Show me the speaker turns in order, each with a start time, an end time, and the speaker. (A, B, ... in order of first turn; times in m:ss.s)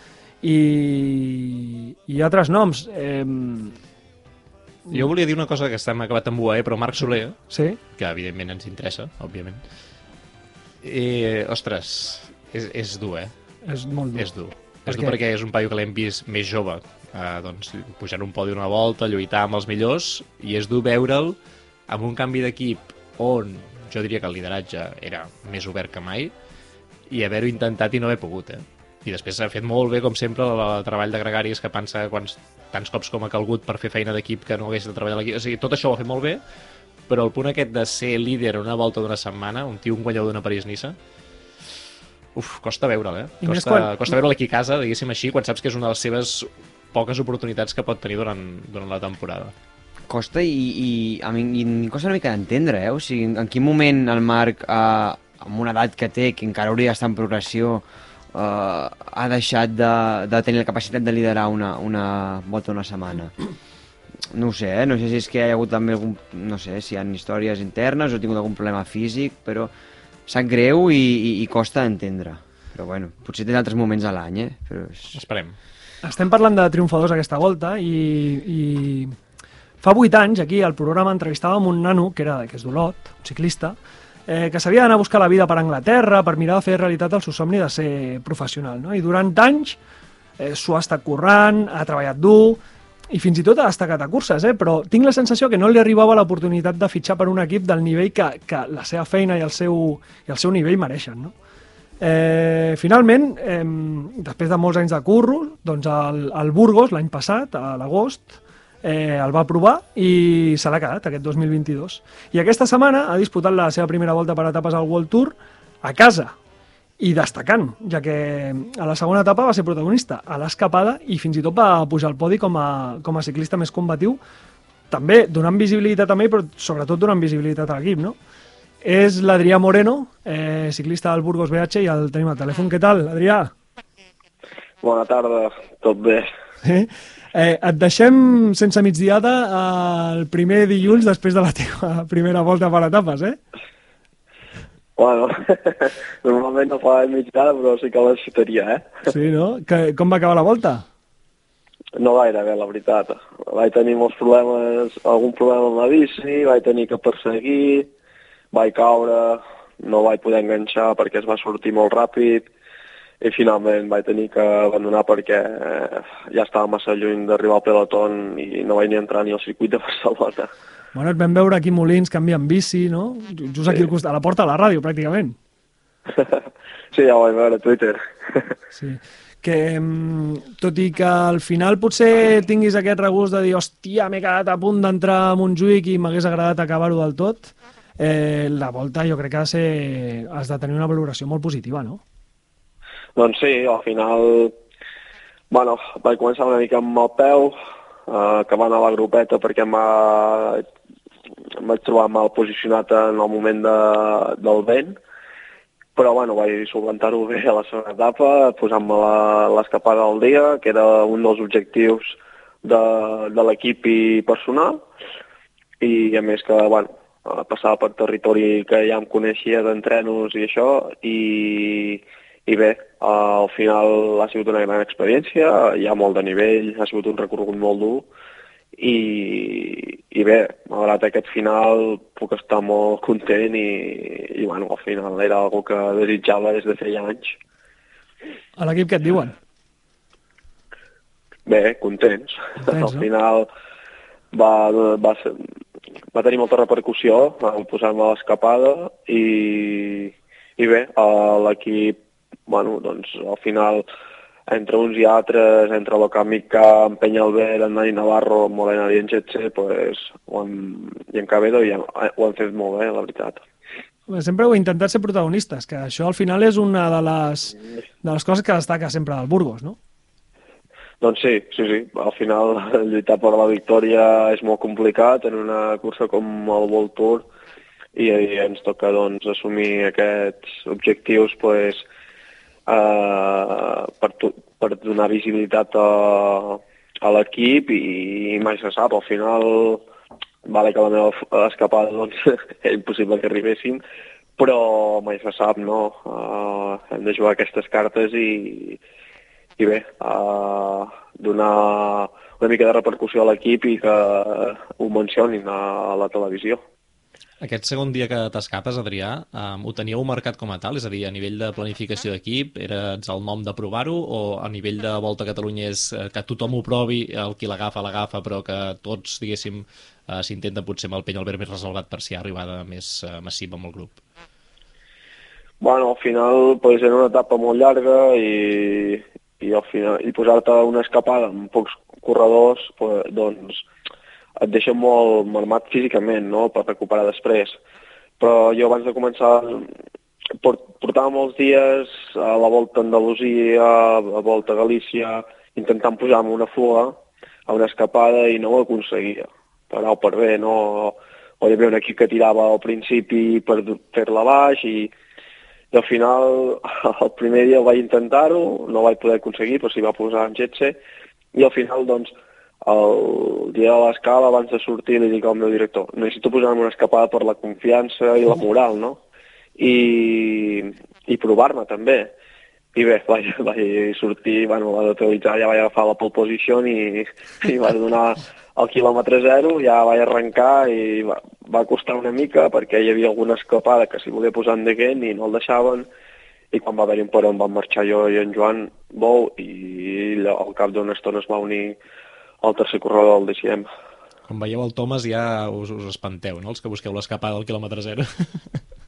0:00.4-0:03.8 A
0:04.9-0:07.4 B
0:06.9-0:07.8 A
0:07.9-0:09.6 B
0:10.8-0:13.3 B
0:13.6-0:14.3 A
0:14.2-0:21.4 B
0:14.8-0:15.1 A
0:21.9-0:26.3 B
0:27.1-0:36.4 B
0:37.1-0:41.0 B
0:42.3-0:49.5 B
0:43.4-0:44.1 A
0:50.1-1:03.5 C
1:04.3-1:09.7 C
1:10.3-1:15.2 C
1:15.1-1:15.6 B
1:16.0-1:19.2 A
1:19.8-1:23.8 A
1:24.3-1:29.8 A
1:30.4-1:41.3 A
1:42.0-1:56.3 A
1:57.0-2:04.2 A
2:04.9-2:08.2 A
2:08.8-2:13.5 A
2:14.8-2:16.3 D
2:16.6-2:23.4 A
2:25.0-2:28.9 D
2:29.1-2:30.8 A
2:32.0-2:37.9 D
2:38.5-2:42.5 D
2:43.2-2:50.5 D
2:50.9-2:55.4 A
2:56.9-2:58.5 D
2:58.7-3:12.0 A
3:13.2-3:14.5 D
3:15.5-3:17.6 D
3:18.1-3:20.6 D
3:21.6-3:25.0 D
3:26.0-3:34.8 D
3:35.8-3:48.1 D
3:48.8-3:57.4 D
3:58.6-3:59.3 A
4:01.4-4:03.5 D
4:02.6-4:03.1 A
4:04.3-4:05.4 D
4:06.1-4:13.9 D
4:14.5-4:23.4 D
4:24.1-4:29.8 A
4:31.0-4:37.2 D
4:37.9-4:41.8 D
4:42.7-4:49.8 D
4:50.4-4:53.8 D
4:54.4-4:58.8 D
4:59.6-5:06.6 D
5:07.4-5:24.0 B
5:25.6-5:33.6 D
5:34.4-5:37.6 D
5:38.2-5:39.7 D
5:40.4-5:54.9 D
5:55.7-6:00.8 D
6:01.3-6:09.0 D
6:09.6-6:12.1 D
6:12.7-6:25.9 D
6:26.5-6:31.8 D
6:32.4-6:33.7 D
6:34.3-6:38.6 B